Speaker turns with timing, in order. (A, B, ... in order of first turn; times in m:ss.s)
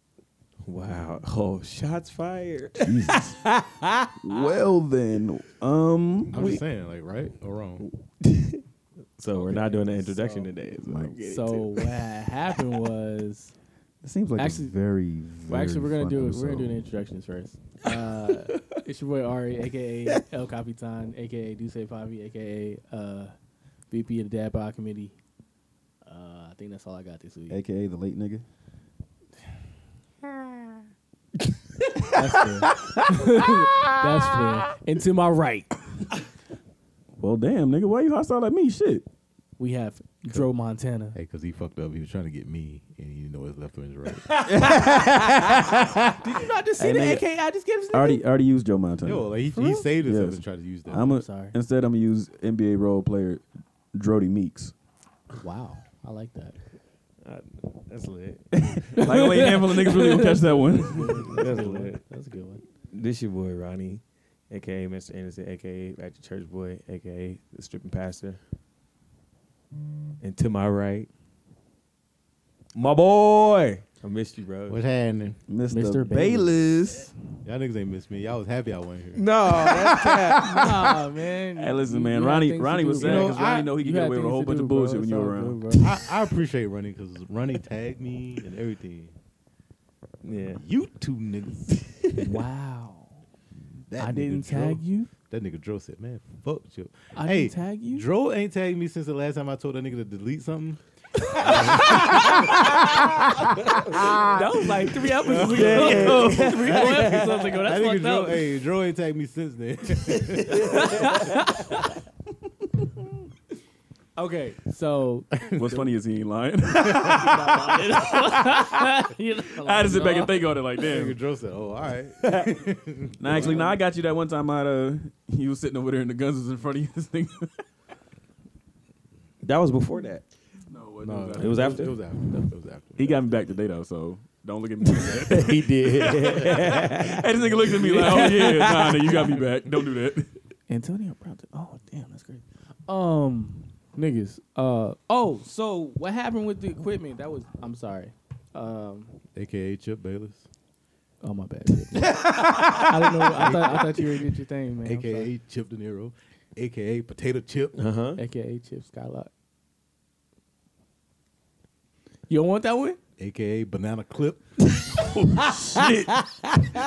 0:00.6-0:04.5 A
0:02.8-0:03.5 B
0:04.2-0:06.6 B
0:06.3-0:07.9 C
0:07.8-0:08.6 A
0:09.2-0:11.9 A
0:09.3-0:10.5 C
0:10.8-0:11.2 B
0:11.3-0:13.5 D
0:14.0-0:16.8 B
0:14.4-0:14.7 D
0:15.5-0:23.3 D
0:23.9-0:25.2 D
0:26.0-0:27.6 D
0:27.5-0:28.4 B
0:32.1-0:35.8 D
0:37.2-0:39.0 B
0:39.6-0:41.2 D
0:41.1-0:44.4 C
0:44.4-0:45.9 B
0:46.2-0:48.2 D
0:46.8-0:47.3 B
0:47.9-0:49.4 B
0:49.0-0:51.0 C
0:49.5-0:49.9 D
0:49.9-0:54.7 B
0:50.9-0:51.5 D
0:55.4-0:56.6 D
0:57.2-0:58.8 A
0:58.5-1:01.4 B
0:59.0-1:02.6 D
1:01.3-1:02.0 A
1:02.9-1:08.4 A
1:10.2-1:11.1 A
1:12.7-1:14.8 A
1:14.7-1:15.4 C
1:15.5-1:17.1 B
1:15.7-1:16.5 D
1:17.4-1:19.3 C
1:19.1-1:20.6 A
1:19.6-1:20.4 B
1:20.4-1:25.9 D
1:21.5-1:25.6 B
1:23.0-1:23.7 C
1:25.8-1:29.1 C
1:30.2-1:30.6 A
1:30.5-1:32.2 C
1:32.2-1:33.2 D
1:33.9-1:44.4 C
1:34.0-1:35.1 D
1:37.1-1:38.0 D
1:41.4-1:42.2 D
1:44.2-1:48.5 D
1:45.0-1:51.3 C
1:45.2-1:47.6 A
1:50.1-1:51.2 A
1:50.6-1:51.8 D
1:54.2-1:55.8 D
1:55.5-2:01.2 B
1:56.9-2:00.5 D
2:00.8-2:03.7 C
2:02.2-2:02.5 A
2:03.2-2:07.6 B
2:03.3-2:03.6 D
2:09.4-2:10.2 A
2:10.6-2:12.0 B
2:11.0-2:13.3 C
2:11.4-2:12.4 A
2:13.0-2:20.4 B
2:15.3-2:19.4 A
2:15.3-2:16.6 C
2:17.9-2:18.6 D
2:20.7-2:29.2 D
2:29.3-2:30.5 C
2:31.2-2:35.3 D
2:32.1-2:32.8 A
2:33.3-2:34.0 C
2:34.8-2:37.8 C
2:37.8-2:38.2 A
2:38.2-2:39.3 D
2:42.3-2:43.0 D
2:43.2-2:44.6 C
2:44.8-2:46.2 B
2:46.2-2:46.6 A